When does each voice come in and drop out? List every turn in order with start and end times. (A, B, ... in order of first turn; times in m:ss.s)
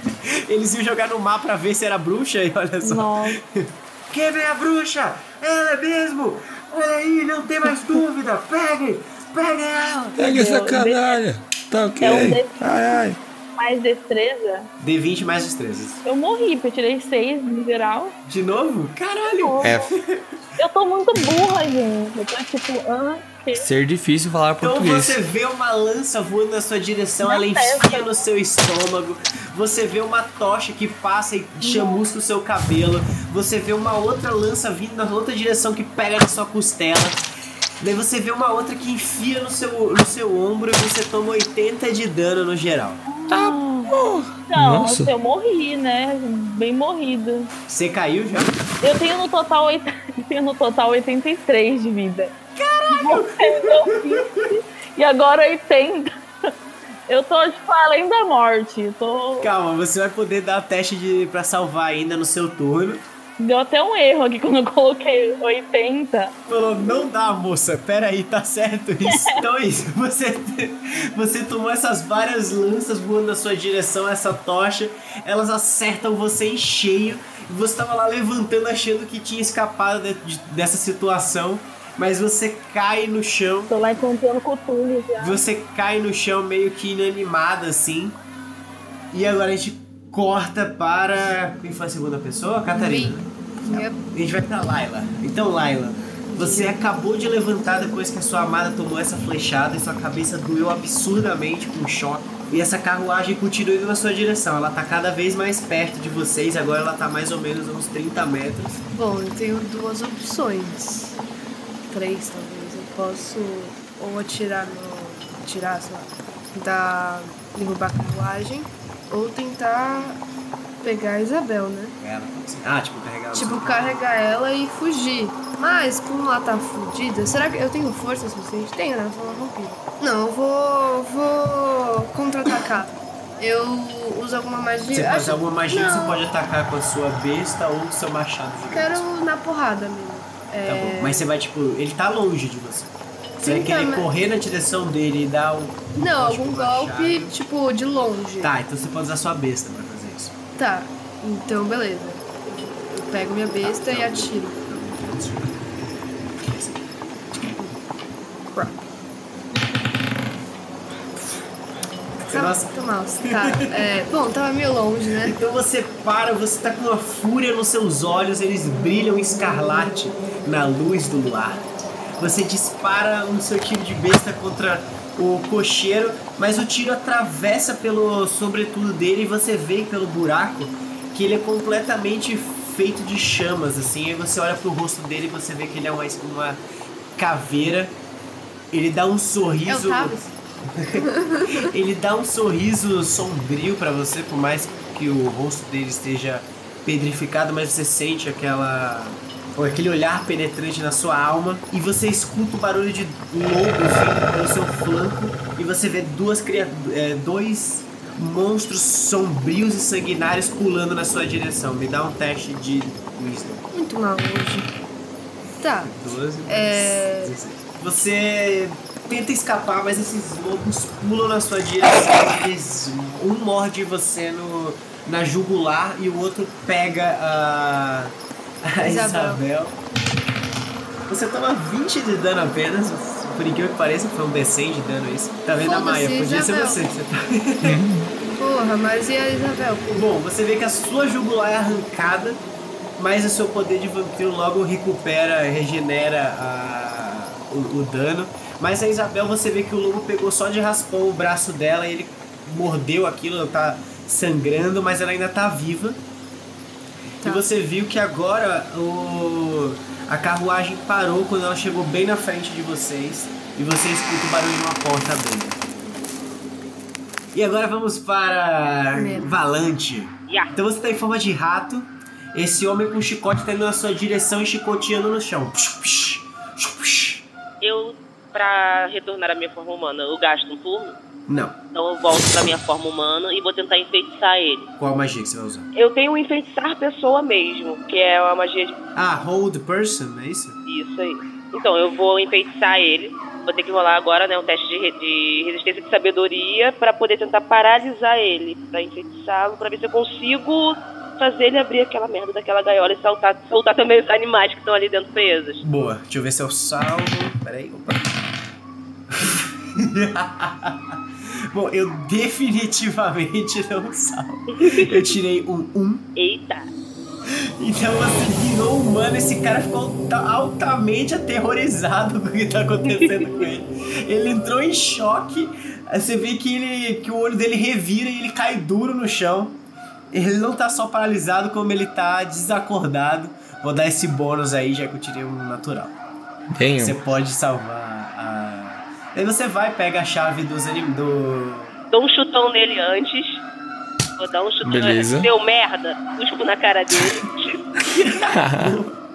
0:00.2-0:10.2 A
0:02.8-0:03.4 B
0:10.2-0:13.2 C
0:10.2-0:11.2 B
0:12.0-0:12.8 B
0:13.6-0:14.7 B
0:14.8-0:16.0 A
0:16.0-0:18.2 B
0:18.3-0:20.2 A
0:19.2-0:19.9 B
0:20.6-0:23.7 B
0:23.5-0:25.2 C
0:24.6-0:37.2 A
0:27.2-0:28.2 B
0:31.6-0:32.0 B
0:37.8-0:43.0 A
0:43.1-0:47.5 B
0:43.3-0:45.1 C
0:47.7-0:48.5 A
0:48.8-0:52.3 B
0:52.6-0:54.5 A
0:52.9-0:56.1 B
0:57.1-0:59.5 B
0:59.4-1:03.0 A
1:03.4-1:06.3 B
1:06.5-1:23.7 A
1:23.7-1:25.4 B
1:25.2-1:28.2 A
1:29.1-1:48.8 A
1:32.7-1:34.0 D
1:36.3-1:36.8 D
1:48.9-1:51.2 D
1:51.9-2:00.2 D
2:00.8-2:02.0 D
2:02.0-2:04.0 A
2:03.3-2:16.2 D
2:14.9-2:19.1 A
2:18.7-2:21.3 D
2:20.6-2:27.3 A
2:23.4-2:24.1 D
2:26.0-2:28.5 D
2:28.4-2:30.4 A
2:30.6-2:34.6 D
2:33.6-2:35.5 A
2:36.4-2:36.9 A
2:42.2-2:42.7 A
2:42.3-2:45.4 D
2:43.3-2:43.6 A
2:45.2-2:51.6 A
2:52.2-3:06.6 A
3:07.2-3:08.0 A
3:08.7-3:10.2 A
3:09.7-3:10.4 D
3:10.7-3:33.7 A
3:10.9-3:11.7 D
3:33.7-3:34.7 D
3:35.6-3:35.9 D
3:35.8-3:49.8 A
3:36.5-3:37.3 D
3:48.8-3:49.4 D
3:51.1-3:57.8 A
3:55.6-3:56.8 D
3:57.6-3:58.1 C
3:58.3-4:00.1 D
3:59.9-4:02.4 A
4:03.0-4:16.0 A
4:17.2-4:25.7 A
4:27.3-4:37.3 A
4:28.9-4:29.4 D
4:37.6-4:41.0 E
4:41.3-4:41.6 A
4:41.7-4:44.7 E
4:44.8-4:45.7 A
4:45.8-4:48.8 E
4:49.0-4:50.6 A
4:50.7-5:05.6 E
5:05.6-5:08.1 A
5:09.1-5:11.0 A
5:11.5-5:16.1 A
5:14.6-5:14.9 E
5:16.2-5:16.7 E
5:17.3-5:29.6 A
5:30.1-5:36.0 A
5:36.5-5:37.0 C
5:36.8-5:41.8 A
5:41.9-5:43.4 E
5:44.2-5:48.1 E
5:44.6-5:45.3 C
5:48.0-5:49.0 A
5:48.2-5:48.8 C